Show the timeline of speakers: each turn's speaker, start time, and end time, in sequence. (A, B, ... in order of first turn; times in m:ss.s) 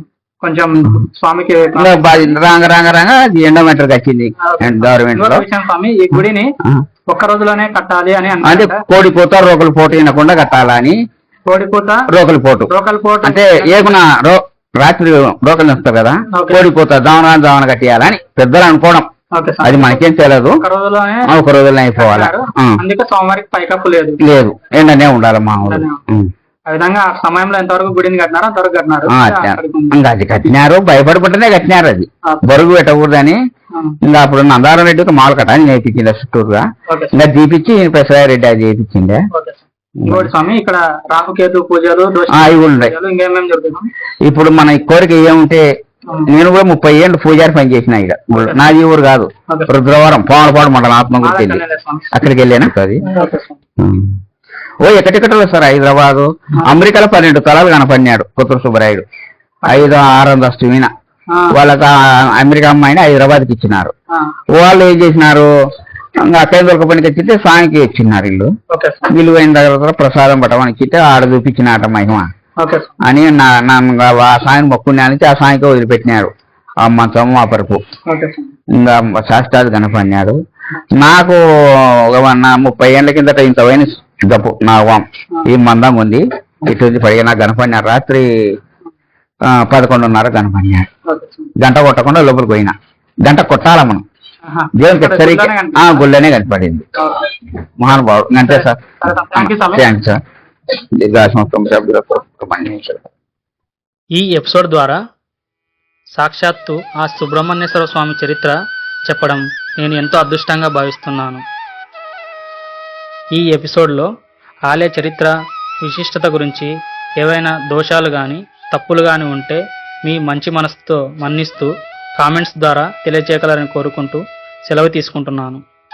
0:00.4-0:01.9 A
0:01.8-0:05.5 B
0:04.5-0:06.5 A
0:07.1-0:08.8 A
0:08.4-0:11.0 B
0:11.5-0:12.0 A
0:12.1-0:19.1 B
0:12.7-0:13.4 A
0:16.3-0:16.6 A
0:19.3-0:19.9 A
0:19.6-0:20.6 B
0:20.6-0:21.3 A
0:21.3-0:22.8 B
0:22.0-0:24.2 A
0:24.2-0:26.3 B
0:25.7-0:26.0 A
0:26.7-0:29.9 A
0:29.1-0:33.4 B
0:34.0-0:39.2 B
0:39.3-0:43.9 A
0:40.0-0:40.3 B
0:42.3-0:42.9 B
0:44.2-0:45.6 B
0:46.3-0:51.6 B
0:51.2-0:52.0 A
0:52.1-0:53.0 B
0:53.1-0:53.6 A
0:53.8-0:54.1 B
0:54.8-0:59.0 B
0:59.7-1:00.9 B
1:01.5-1:03.9 B
1:04.6-1:05.5 B
1:06.2-1:08.5 B
1:08.7-1:09.1 A
1:09.1-1:12.3 B
1:12.6-1:12.9 A
1:13.0-1:16.3 B
1:16.8-1:17.8 B
1:18.1-1:18.5 A
1:18.8-1:20.4 B
1:20.9-1:28.3 B
1:29.5-1:30.9 B
1:31.1-1:31.5 A
1:31.6-1:34.0 B
1:34.5-1:36.0 A
1:34.8-1:36.9 B
1:37.8-1:40.2 B
1:38.5-1:39.8 A
1:41.0-1:43.0 B
1:44.2-1:45.0 C
1:46.2-1:48.6 C
1:49.1-1:51.4 C
1:53.4-1:54.1 C
1:54.7-1:55.3 C
1:55.8-2:05.6 C